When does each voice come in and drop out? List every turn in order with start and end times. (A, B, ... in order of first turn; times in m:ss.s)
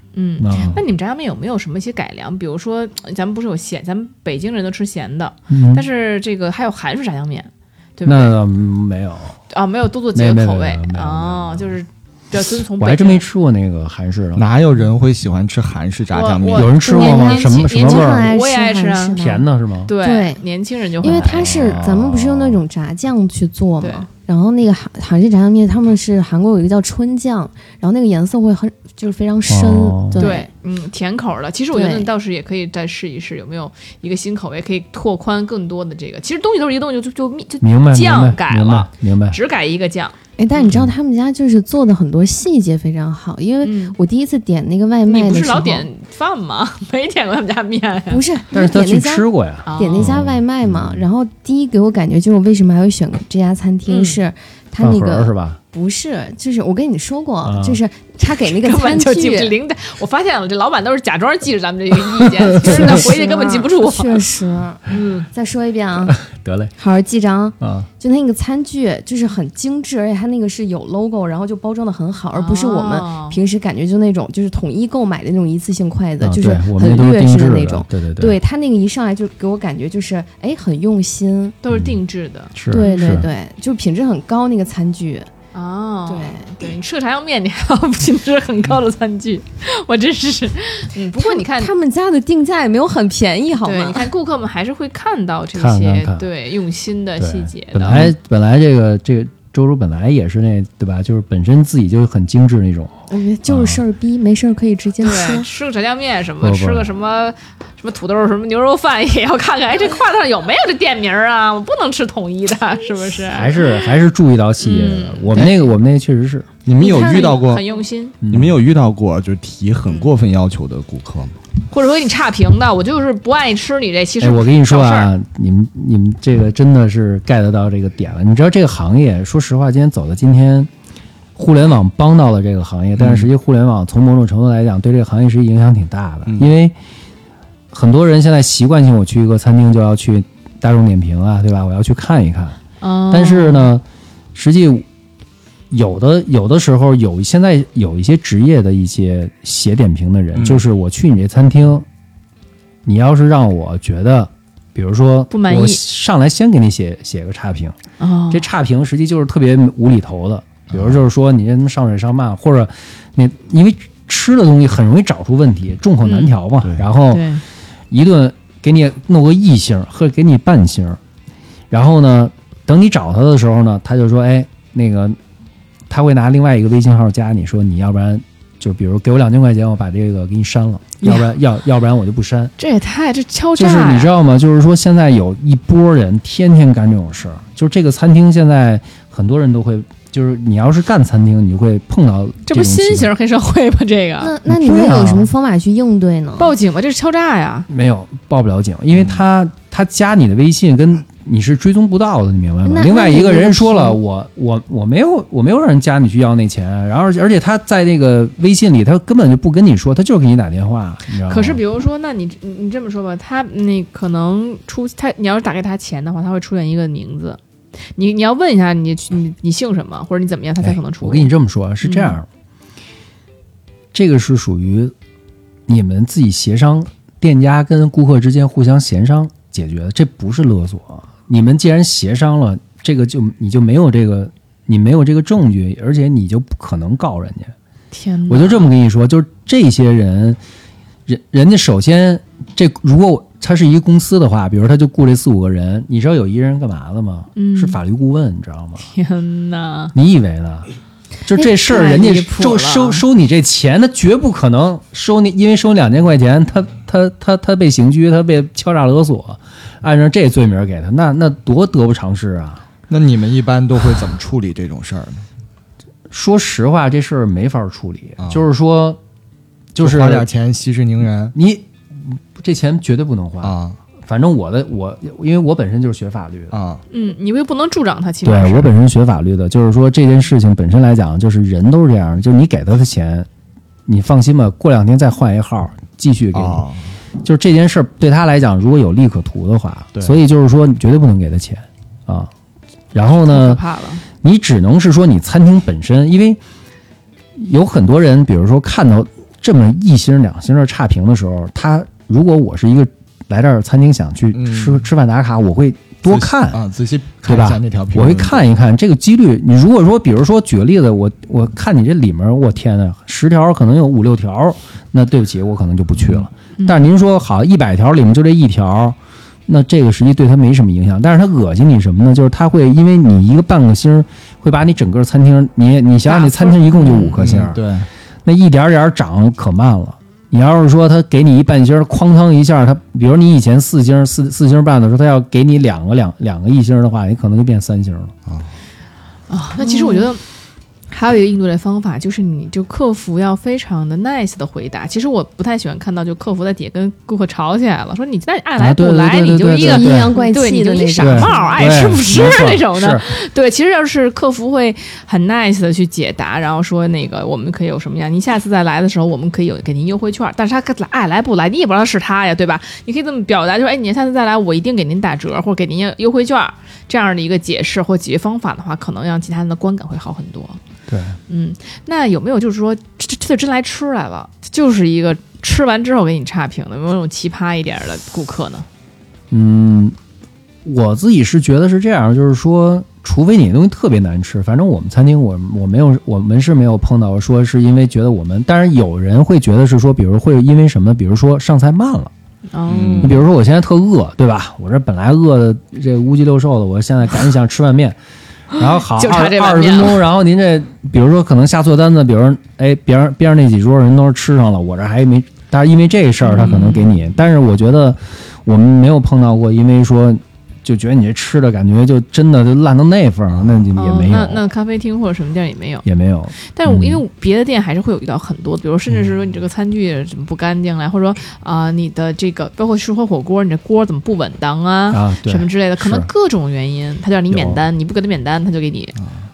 0:00.1-0:08.3 A
0:00.4-0:00.8 B
0:05.5-0:05.9 B
0:08.0-0:09.4 B
0:09.5-0:13.2 A
0:10.1-0:11.8 B
0:12.8-0:14.5 B
0:14.4-0:16.7 C
0:16.1-0:19.2 A
0:16.5-0:18.4 B
0:16.8-0:19.4 D
0:19.2-0:19.9 B
0:19.9-0:21.5 A
0:20.0-0:20.4 D
0:21.0-0:30.5 D
0:21.0-0:22.6 B
0:23.8-0:24.1 A
0:29.5-0:30.3 B
0:30.2-0:40.8 A
0:31.7-0:32.1 D
0:37.6-0:39.4 B
0:40.4-0:45.9 D
0:43.6-0:44.0 A
0:45.1-0:48.2 A
0:48.1-0:59.5 D
0:48.5-0:51.1 B
0:49.7-0:50.2 A
0:53.9-0:54.2 A
0:54.8-0:55.6 B
0:57.4-0:57.8 B
0:58.4-1:04.3 A
1:02.6-1:06.2 D
1:02.6-1:03.1 B
1:04.9-1:05.3 A
1:06.1-1:06.7 B
1:06.8-1:21.6 D
1:07.6-1:07.9 B
1:12.3-1:13.4 A
1:16.2-1:18.4 B
1:21.6-1:23.1 A
1:21.7-1:22.0 B
1:22.6-1:23.3 B
1:22.7-1:25.3 D
1:25.5-1:31.7 A
1:26.1-1:26.4 D
1:31.2-1:34.1 D
1:33.6-1:38.1 A
1:35.6-1:36.2 B
1:37.2-1:43.8 B
1:43.1-1:45.5 D
1:45.0-1:53.8 A
1:46.4-1:46.9 B
1:53.3-1:56.6 B
1:54.6-1:55.6 A
1:56.6-1:57.7 C
1:56.8-1:58.2 A
1:58.2-1:58.6 B
1:58.3-2:01.4 C
2:01.7-2:05.1 A
2:04.2-2:10.7 B
2:11.4-2:16.8 B
2:13.0-2:13.3 C
2:17.7-2:22.6 B
2:22.8-2:23.7 A
2:23.1-2:23.8 B
2:24.4-2:24.9 B
2:25.7-2:31.9 B
2:30.4-2:30.6 C
2:32.8-2:37.8 B
2:35.3-2:35.8 A
2:38.0-2:38.5 A
2:38.3-2:47.3 B
2:40.7-2:41.0 C
2:46.0-2:46.4 A
2:47.1-2:47.4 A
2:47.9-2:51.0 B
2:51.7-2:55.2 B
2:55.9-3:02.5 B
3:01.0-3:01.3 A
3:02.6-3:04.1 A
3:03.6-3:13.1 B
3:12.5-3:14.4 A
3:14.2-3:16.6 D
3:14.5-3:15.3 B
3:16.4-3:17.7 A
3:17.7-3:31.6 B
3:22.6-3:24.0 D
3:31.2-3:37.4 A
3:38.0-3:42.2 A
3:40.6-3:42.3 B
3:43.9-3:44.9 B
3:45.7-3:57.5 B
3:57.9-3:58.7 A
3:58.3-4:00.4 B
4:01.1-4:08.9 B
4:07.4-4:07.8 A
4:08.8-4:09.9 A
4:09.9-4:10.7 B
4:11.2-4:22.6 B
4:11.4-4:13.0 A
4:22.9-4:25.2 C
4:26.1-4:29.0 B
4:29.7-4:30.3 B
4:29.8-4:31.3 C
4:31.3-4:36.6 B
4:33.4-4:33.8 C
4:36.5-4:36.8 C
4:36.9-4:38.7 A
4:38.2-4:43.3 B
4:43.9-4:46.6 B
4:46.3-4:46.9 C
4:47.2-4:52.3 B
4:52.9-4:53.6 B
4:53.0-4:54.0 A
4:54.2-4:56.4 B
4:57.4-5:06.6 B
5:04.3-5:04.8 C
5:06.1-5:08.4 C
5:07.2-5:27.6 B
5:16.0-5:16.3 C
5:16.6-5:16.8 A
5:26.0-5:27.2 A
5:27.2-5:27.9 C
5:28.2-5:38.1 B
5:39.3-5:40.2 A
5:39.6-5:40.1 D
5:40.9-6:10.6 A
5:48.6-5:50.2 B
5:49.6-5:51.8 D
5:51.0-5:53.1 B
6:10.9-6:11.2 B
6:11.3-6:18.7 A
6:19.3-6:20.0 B
6:20.6-6:32.1 B
6:32.5-6:33.2 A
6:32.7-6:33.2 C
6:33.0-6:38.0 B
6:38.6-6:54.4 B
6:38.6-6:40.0 A
6:46.2-6:46.9 A
6:53.8-6:55.8 A
6:55.8-6:57.0 B
6:56.4-7:09.0 A
7:04.9-7:06.1 B
7:07.3-7:07.6 B